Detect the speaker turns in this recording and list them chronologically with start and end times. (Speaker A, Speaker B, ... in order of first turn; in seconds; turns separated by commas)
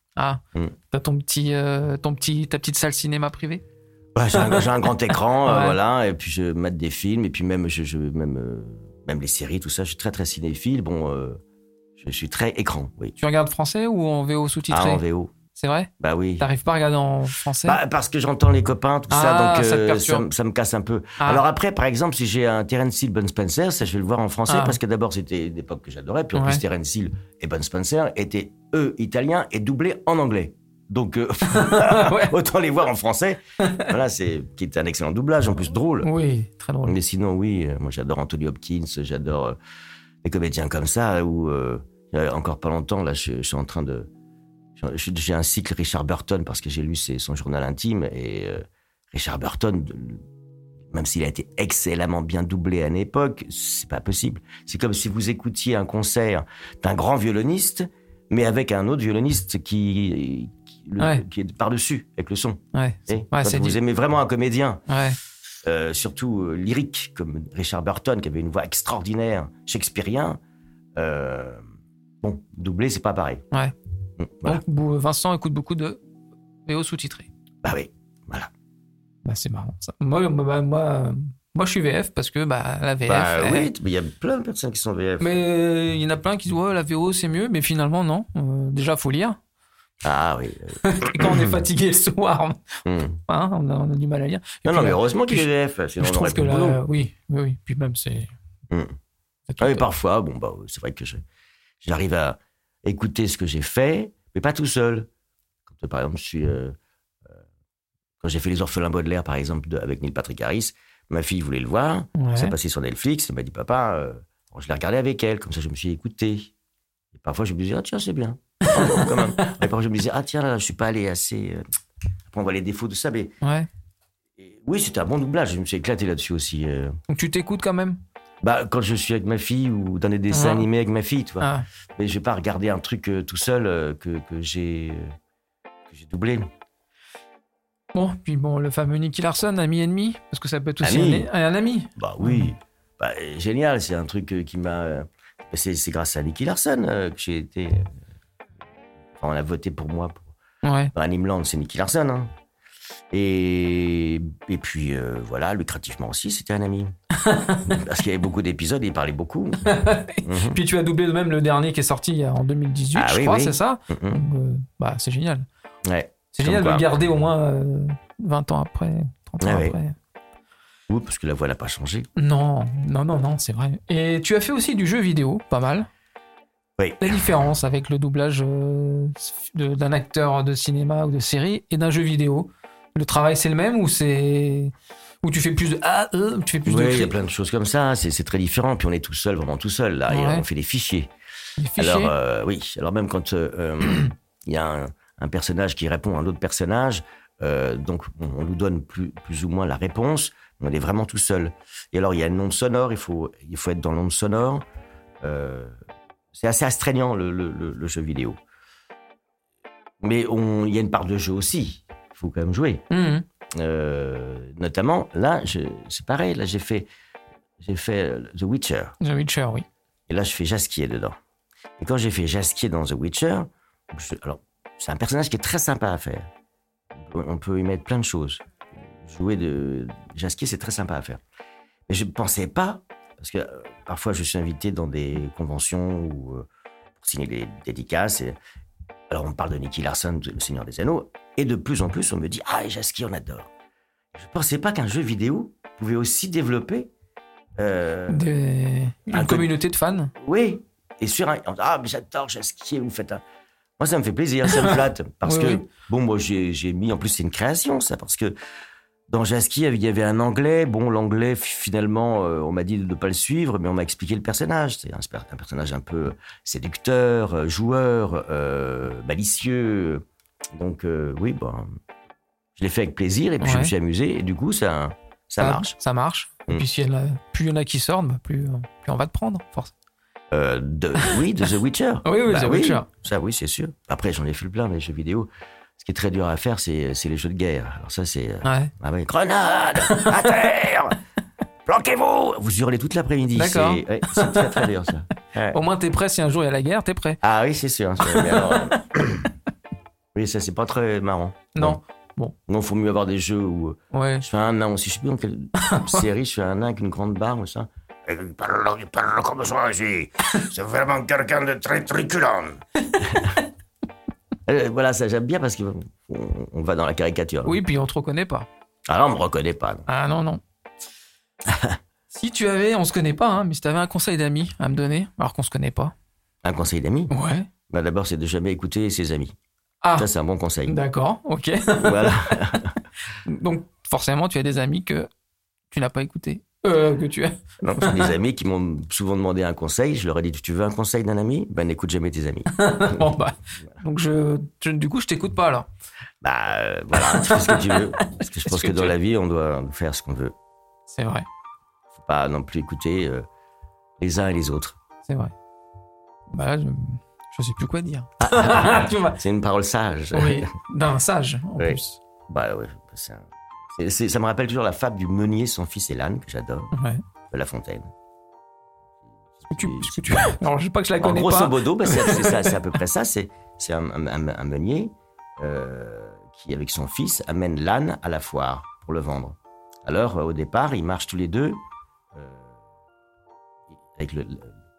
Speaker A: 0.2-3.6, Speaker B: 4.1-11.4, Speaker A: 4.3-4.6, Speaker A: 5.4-5.8, Speaker B: 12.0-13.2, Speaker A: 13.2-15.0, Speaker B: 14.7-15.3, Speaker A: 15.6-17.8, Speaker B: 16.0-16.4, Speaker B: 17.6-36.1, Speaker A: 19.1-20.3, Speaker A: 24.5-24.8, Speaker A: 26.3-26.6, Speaker A: 31.5-32.3, Speaker A: 33.6-33.9, Speaker A: 36.0-37.0, Speaker B: 36.8-39.6, Speaker B: 40.2-44.1, Speaker B: 44.8-50.2, Speaker B: 50.9-64.8, Speaker A: 61.0-61.2, Speaker A: 62.7-63.8, Speaker A: 64.9-65.2, Speaker B: 65.6-70.4, Speaker B: 71.0-71.6, Speaker B: 72.2-73.4, Speaker B: 74.2-74.6, Speaker A: 74.4-76.0, Speaker A: 76.7-77.3, Speaker B: 77.6-78.5, Speaker A: 79.2-83.7, Speaker B: 83.0-85.4, Speaker A: 85.2-89.4, Speaker B: 90.0-91.6, Speaker A: 90.8-95.5, Speaker B: 92.8-93.2, Speaker B: 94.7-96.8, Speaker A: 96.0-98.3, Speaker B: 98.7-99.0, Speaker A: 99.5-99.9, Speaker B: 99.6-101.2, Speaker B: 101.8-105.1, Speaker B: 105.7-106.7, Speaker B: 108.2-116.5, Speaker A: 112.2-112.5, Speaker B: 117.1-121.6, Speaker A: 118.6-119.5, Speaker B: 122.3-123.3, Speaker A: 123.4-123.7, Speaker B: 124.4-127.0, Speaker A: 127.1-128.0, Speaker B: 128.4-135.1, Speaker A: 130.3-130.7, Speaker A: 131.4-131.7, Speaker B: 135.9-136.5, Speaker A: 137.9-142.5, Speaker B: 140.8-141.3, Speaker B: 141.9-147.9, Speaker B: 149.2-150.3, Speaker A: 150.6-150.9, Speaker B: 150.9-152.3, Speaker B: 153.1-156.9, Speaker A: 157.2-157.8, Speaker B: 157.6-160.6, Speaker A: 159.6-165.4, Speaker B: 162.9-164.2, Speaker B: 165.8-166.8, Speaker A: 166.3-169.9, Speaker B: 169.4-169.8, Speaker B: 170.9-172.1, Speaker A: 172.2-175.9, Speaker B: 176.8-177.2, Speaker A: 177.0-187.1, Speaker B: 186.7-191.1, Speaker A: 190.1-190.4, Speaker A: 191.6-192.1, Speaker B: 191.8-204.6, Speaker B: 205.2-205.8, Speaker B: 206.3-208.4, Speaker B: 210.0-212.8, Speaker A: 212.9-213.2, Speaker B: 213.5-216.9, Speaker B: 217.6-218.9, Speaker A: 219.0-219.7, Speaker B: 220.1-221.2, Speaker B: 221.8-226.3, Speaker B: 226.9-231.2, Speaker B: 231.9-236.4, Speaker B: 237.0-238.4, Speaker B: 239.1-243.5, Speaker B: 244.1-246.9, Speaker B: 247.6-248.3, Speaker A: 248.1-250.1, Speaker B: 249.1-249.5, Speaker B: 250.1-253.2, Speaker B: 253.8-258.3, Speaker A: 254.5-255.6, Speaker B: 259.1-271.8, Speaker B: 272.6-275.7, Speaker A: 273.4-273.7, Speaker A: 275.4-279.7, Speaker B: 280.3-290.9, Speaker A: 282.1-282.9, Speaker A: 288.4-288.7, Speaker A: 289.8-290.3, Speaker B: 291.6-295.6, Speaker A: 293.3-294.6, Speaker A: 295.5-297.2, Speaker B: 297.2-299.3, Speaker A: 298.0-298.8, Speaker B: 300.1-301.8, Speaker A: 301.5-302.3, Speaker B: 302.5-313.4, Speaker A: 303.9-304.2, Speaker A: 305.6-306.0, Speaker A: 312.9-313.2, Speaker B: 314.4-317.6, Speaker A: 317.4-318.5, Speaker B: 318.9-319.9, Speaker A: 319.9-320.4, Speaker B: 321.4-321.8, Speaker A: 322.1-325.9, Speaker B: 326.4-327.1, Speaker A: 327.1-327.5, Speaker B: 327.7-329.3, Speaker A: 329.8-330.1, Speaker B: 330.0-330.8, Speaker A: 330.7-332.6, Speaker B: 331.8-332.7, Speaker A: 333.2-335.1, Speaker A: 335.7-338.1, Speaker B: 337.6-343.1, Speaker A: 342.6-345.7, Speaker B: 346.2-350.3, Speaker A: 346.9-348.9, Speaker A: 350.9-351.3, Speaker B: 351.9-353.3, Speaker B: 354.0-354.8, Speaker A: 355.1-355.3, Speaker A: 356.3-359.2, Speaker B: 358.2-360.5, Speaker A: 360.1-362.0, Speaker B: 361.6-366.7, Speaker A: 366.7-367.0, Speaker B: 367.3-367.9, Speaker B: 369.3-370.4, Speaker A: 369.5-372.5, Speaker B: 371.0-381.6, Speaker B: 382.1-382.6, Speaker B: 383.7-384.5